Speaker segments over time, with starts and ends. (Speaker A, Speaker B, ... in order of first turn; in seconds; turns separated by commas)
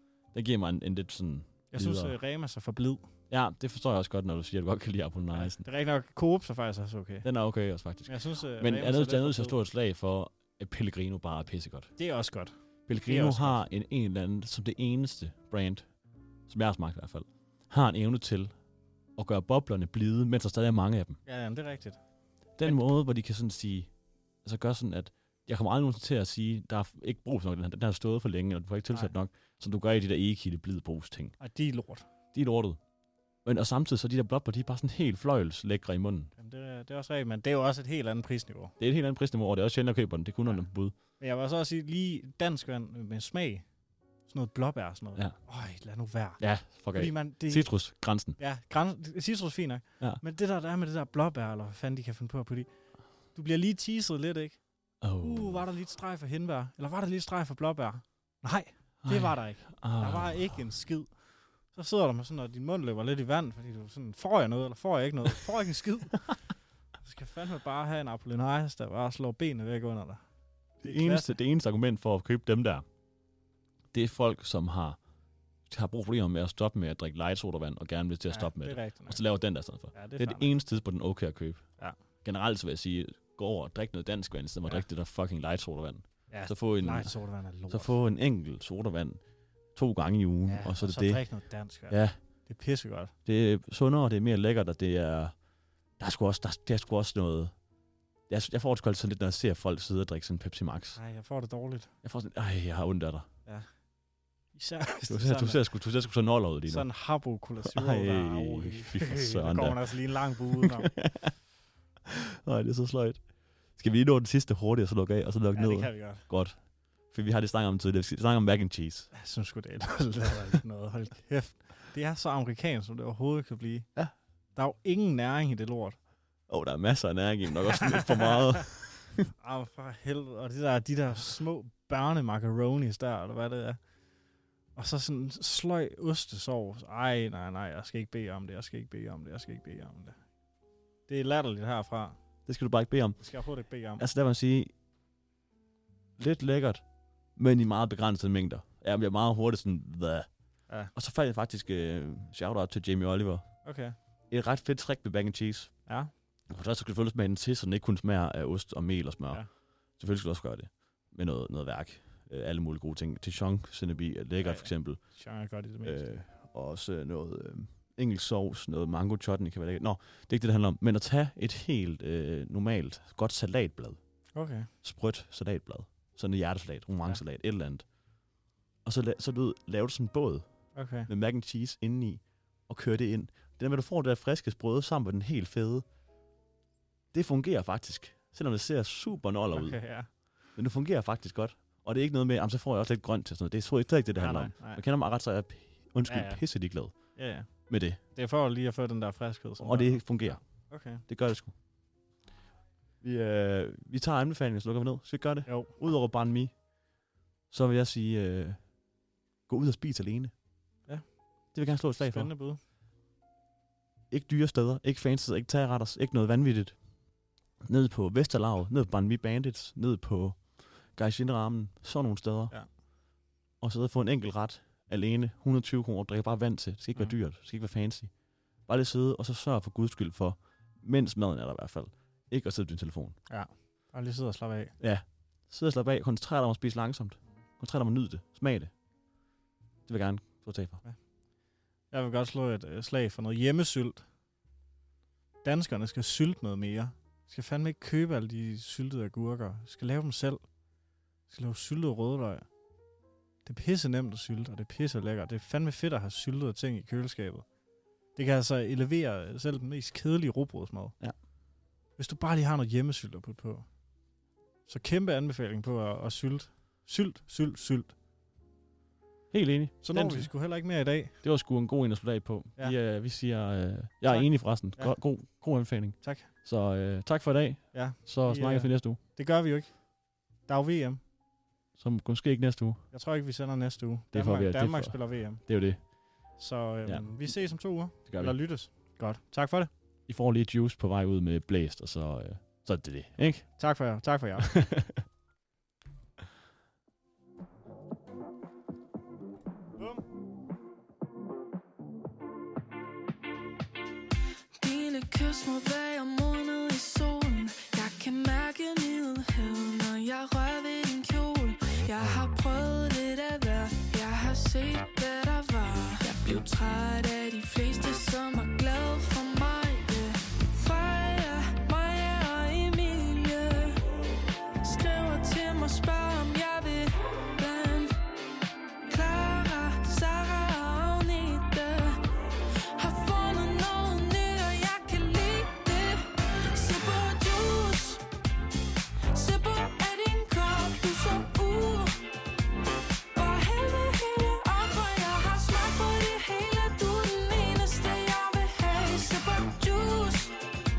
Speaker A: 0.3-2.2, Speaker B: 1.7-3.0, Speaker A: 3.3-5.7, Speaker B: 5.3-7.3, Speaker A: 7.2-11.9, Speaker B: 8.1-9.6, Speaker B: 12.0-13.6, Speaker A: 12.9-15.9, Speaker A: 16.5-18.5, Speaker A: 19.2-21.2, Speaker B: 21.3-22.0, Speaker A: 22.6-23.9, Speaker A: 24.4-31.4, Speaker B: 31.4-32.1, Speaker A: 32.3-32.8, Speaker A: 33.5-36.3, Speaker B: 36.4-38.7, Speaker A: 38.8-40.9, Speaker B: 40.5-43.6, Speaker B: 44.3-52.7, Speaker A: 46.4-48.4, Speaker B: 53.3-54.6, Speaker A: 55.0-55.7, Speaker B: 55.2-61.1, Speaker A: 59.0-60.6, Speaker B: 61.7-66.4, Speaker B: 67.0-70.2, Speaker A: 70.8-72.8, Speaker B: 70.8-71.3, Speaker A: 73.9-75.0, Speaker A: 75.7-81.7, Speaker B: 78.3-79.2, Speaker B: 79.9-80.5, Speaker A: 82.2-89.2, Speaker B: 86.3-88.0, Speaker A: 89.7-91.2, Speaker B: 90.5-93.1, Speaker A: 91.9-92.2, Speaker A: 93.3-95.3, Speaker A: 96.0-97.5, Speaker A: 98.3-101.0, Speaker B: 101.0-101.9, Speaker A: 102.0-103.3, Speaker B: 104.5-105.6, Speaker A: 105.1-106.9, Speaker B: 106.7-110.9, Speaker A: 107.6-111.3, Speaker A: 112.1-116.6, Speaker B: 115.5-116.2, Speaker A: 117.1-119.1, Speaker B: 119.1-123.9, Speaker B: 124.5-126.0, Speaker A: 126.5-129.3, Speaker B: 127.9-128.3, Speaker B: 129.4-133.8, Speaker B: 134.8-140.2, Speaker B: 141.1-142.2, Speaker A: 142.5-143.3, Speaker B: 143.2-144.1, Speaker A: 144.0-144.7, Speaker A: 146.2-146.8, Speaker A: 147.4-150.3, Speaker A: 150.9-153.6, Speaker B: 153.6-154.0, Speaker A: 154.3-155.8, Speaker A: 156.5-165.0, Speaker B: 164.4-166.1, Speaker A: 165.8-174.0, Speaker B: 174.3-174.7, Speaker A: 174.8-177.8, Speaker A: 178.8-185.8, Speaker B: 180.8-181.1, Speaker A: 187.1-189.8, Speaker B: 189.5-190.1, Speaker A: 190.5-197.2, Speaker B: 194.2-194.8, Speaker B: 196.1-196.4, Speaker B: 197.2-197.5, Speaker A: 197.7-198.0, Speaker B: 198.2-201.0, Speaker A: 199.6-201.5, Speaker A: 203.0-206.6, Speaker B: 205.5-205.7, Speaker A: 207.5-208.7, Speaker A: 209.5-210.3, Speaker A: 211.5-212.3, Speaker B: 212.0-212.6, Speaker A: 214.1-216.8, Speaker A: 217.6-222.5, Speaker A: 223.6-228.1, Speaker A: 228.7-233.2, Speaker B: 233.3-234.8, Speaker A: 234.8-238.7, Speaker A: 239.9-240.8, Speaker B: 241.9-244.0, Speaker B: 245.4-250.4, Speaker B: 251.3-252.5, Speaker B: 253.4-257.5, Speaker B: 258.2-261.0, Speaker B: 262.0-263.6, Speaker B: 264.7-267.9, Speaker A: 269.3-270.3, Speaker B: 269.8-271.2, Speaker A: 271.2-279.0, Speaker B: 274.1-275.0, Speaker B: 276.0-276.3, Speaker B: 277.7-279.8, Speaker B: 280.5-281.0, Speaker A: 281.8-282.8, Speaker B: 282.9-285.4, Speaker A: 284.1-285.8, Speaker B: 286.4-289.7, Speaker A: 286.9-287.3, Speaker A: 288.1-288.4, Speaker A: 290.1-293.5, Speaker B: 293.6-294.5, Speaker A: 294.4-295.0, Speaker B: 299.8-300.0, Speaker C: 304.6-323.8, Speaker C: 324.6-327.9, Speaker C: 328.9-332.1, Speaker C: 332.7-338.0, Speaker C: 339.1-342.1, Speaker C: 343.1-350.4